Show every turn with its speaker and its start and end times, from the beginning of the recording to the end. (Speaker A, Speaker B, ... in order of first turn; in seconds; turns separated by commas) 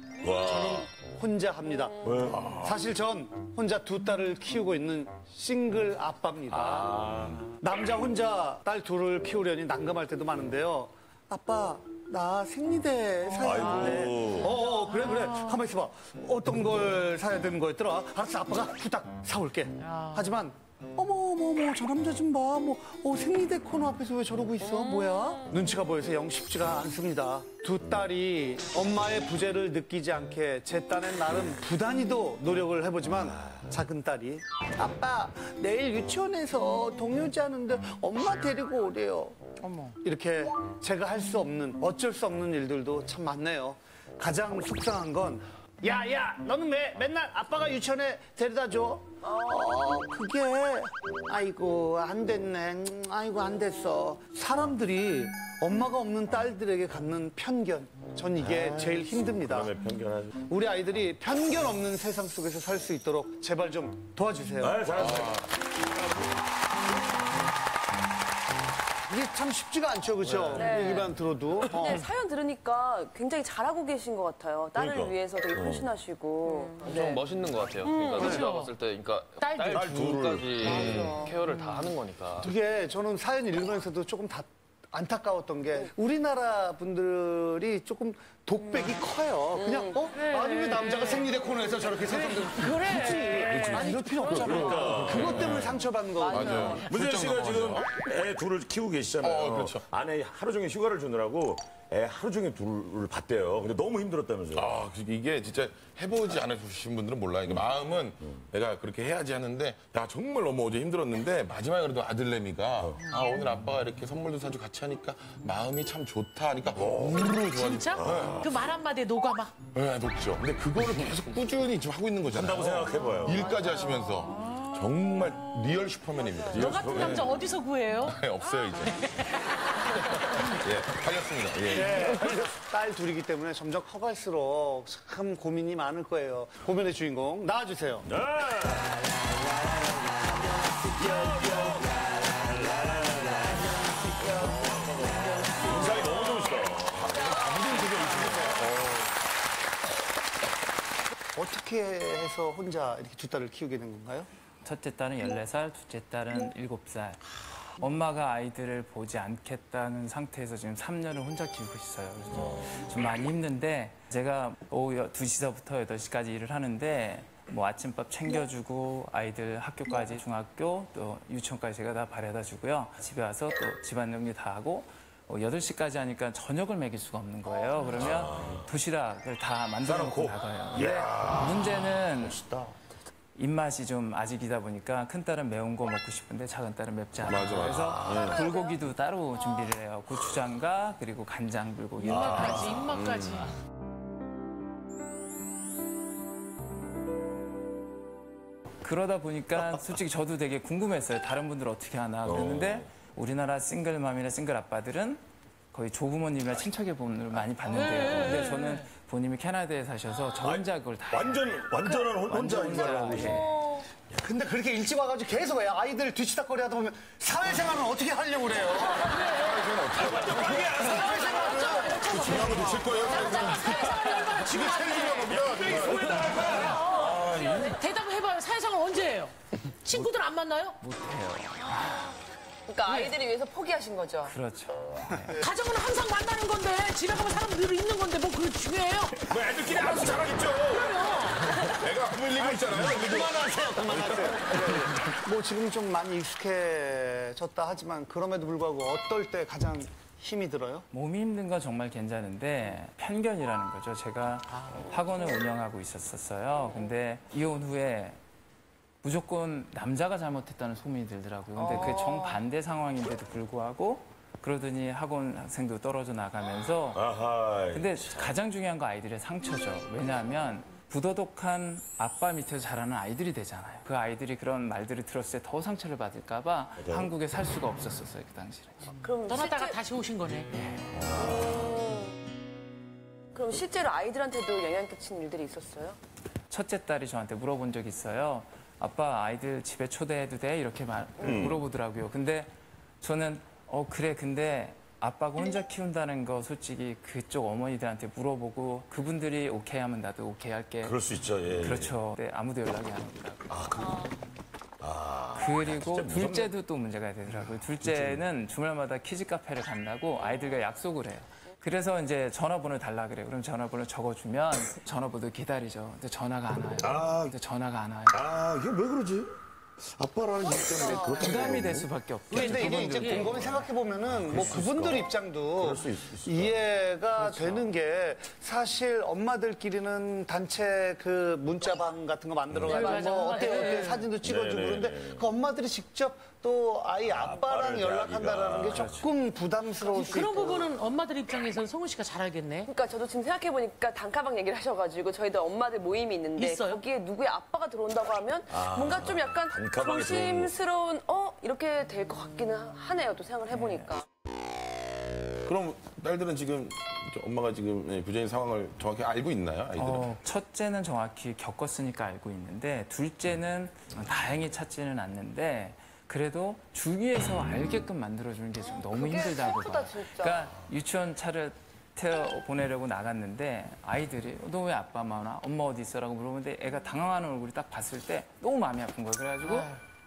Speaker A: 0.2-0.9, Speaker B: 0.4-7.0, Speaker A: 2.0-2.8, Speaker A: 6.5-7.5, Speaker B: 7.6-39.4, Speaker A: 13.4-14.6, Speaker C: 13.4-15.7, Speaker C: 19.8-20.4, Speaker D: 24.6-25.1, Speaker A: 33.3-33.6, Speaker C: 39.6-40.0, Speaker B: 40.0-59.7, Speaker D: 49.2-49.7, Speaker A: 58.4-60.4, Speaker B: 60.5-64.8, Speaker A: 64.6-65.5, Speaker E: 64.9-65.5, Speaker B: 69.1-72.0, Speaker D: 70.5-77.2, Speaker C: 70.5-71.1, Speaker A: 74.7-75.9, Speaker F: 76.8-82.5, Speaker C: 77.8-78.7, Speaker C: 79.4-79.9, Speaker A: 79.7-81.1, Speaker E: 80.6-81.1, Speaker D: 80.7-81.3, Speaker C: 81.4-81.9, Speaker B: 82.4-96.8, Speaker D: 88.6-89.0, Speaker D: 89.5-90.1, Speaker C: 90.1-95.0, Speaker E: 93.4-97.9, Speaker A: 94.3-95.5, Speaker D: 96.2-96.8, Speaker A: 96.8-104.7, Speaker C: 96.8-97.2, Speaker E: 99.2-99.8, Speaker E: 104.5-118.5, Speaker A: 116.8-117.4, Speaker C: 117.4-119.5, Speaker A: 118.0-118.5, Speaker E: 119.7-127.3, Speaker A: 120.8-121.0, Speaker A: 122.3-123.5, Speaker D: 123.6-124.0, Speaker C: 126.5-129.4, Speaker A: 126.5-127.3, Speaker E: 128.0-129.1, Speaker E: 130.5-132.2, Speaker B: 131.7-138.1, Speaker A: 131.7-132.6, Speaker A: 138.1-139.0, Speaker A: 140.9-148.4, Speaker E: 147.0-148.8, Speaker B: 147.2-148.8, Speaker B: 151.3-154.3, Speaker G: 154.6-157.2, Speaker G: 157.8-182.4, Speaker A: 177.9-178.7, Speaker A: 179.8-182.7, Speaker G: 183.3-192.7, Speaker E: 187.2-188.2, Speaker A: 187.7-188.4, Speaker D: 188.3-188.7, Speaker C: 192.0-193.5, Speaker A: 192.0-193.0, Speaker E: 192.3-193.4, Speaker G: 198.8-205.2, Speaker A: 199.6-199.9, Speaker A: 202.2-202.9, Speaker G: 205.7-213.4, Speaker C: 207.7-208.9, Speaker A: 210.4-213.5, Speaker B: 214.2-219.1, Speaker E: 219.1-227.8, Speaker C: 219.2-219.6, Speaker A: 219.9-222.3, Speaker B: 220.9-221.8, Speaker C: 221.0-230.8, Speaker A: 225.0-227.0, Speaker G: 230.8-231.8, Speaker D: 232.7-234.3, Speaker C: 232.8-233.2, Speaker G: 234.2-235.3, Speaker C: 235.3-239.3, Speaker A: 239.2-241.1, Speaker C: 240.7-241.6, Speaker E: 241.4-243.4, Speaker A: 242.3-244.9, Speaker B: 243.6-250.8, Speaker G: 250.9-258.2, Speaker C: 254.5-255.0, Speaker G: 259.0-267.0, Speaker D: 261.6-262.4, Speaker A: 266.9-268.4, Speaker G: 267.7-278.9, Speaker A: 276.8-277.1, Speaker D: 279.0-279.8, Speaker C: 279.2-280.5, Speaker G: 280.5-280.8, Speaker A: 280.9-281.7, Speaker D: 281.2-282.1, Speaker D: 283.3-286.0, Speaker G: 286.5-301.0, Speaker A: 291.2-291.6, Speaker A: 300.8-301.9, Speaker G: 301.6-303.7, Speaker A: 303.5-304.0, Speaker A: 304.8-306.5, Speaker G: 305.3-318.2, Speaker A: 307.8-308.2, Speaker A: 316.8-317.3, Speaker A: 318.1-319.3, Speaker A: 319.9-321.9, Speaker D: 320.5-321.3, Speaker G: 321.1-323.4, Speaker B: 322.3-340.6, Speaker C: 322.4-323.5, Speaker A: 323.2-323.6, Speaker A: 324.1-326.6, Speaker A: 332.5-332.9, Speaker D: 332.7-333.9, Speaker C: 332.7-334.1, Speaker A: 334.2-335.2, Speaker A: 337.1-339.1, Speaker C: 339.8-342.7, Speaker D: 342.6-354.0, Speaker C: 346.4-346.8, Speaker A: 348.5-350.5, Speaker E: 355.4-360.2, Speaker G: 359.8-379.7, Speaker D: 368.6-370.5, Speaker C: 379.4-379.8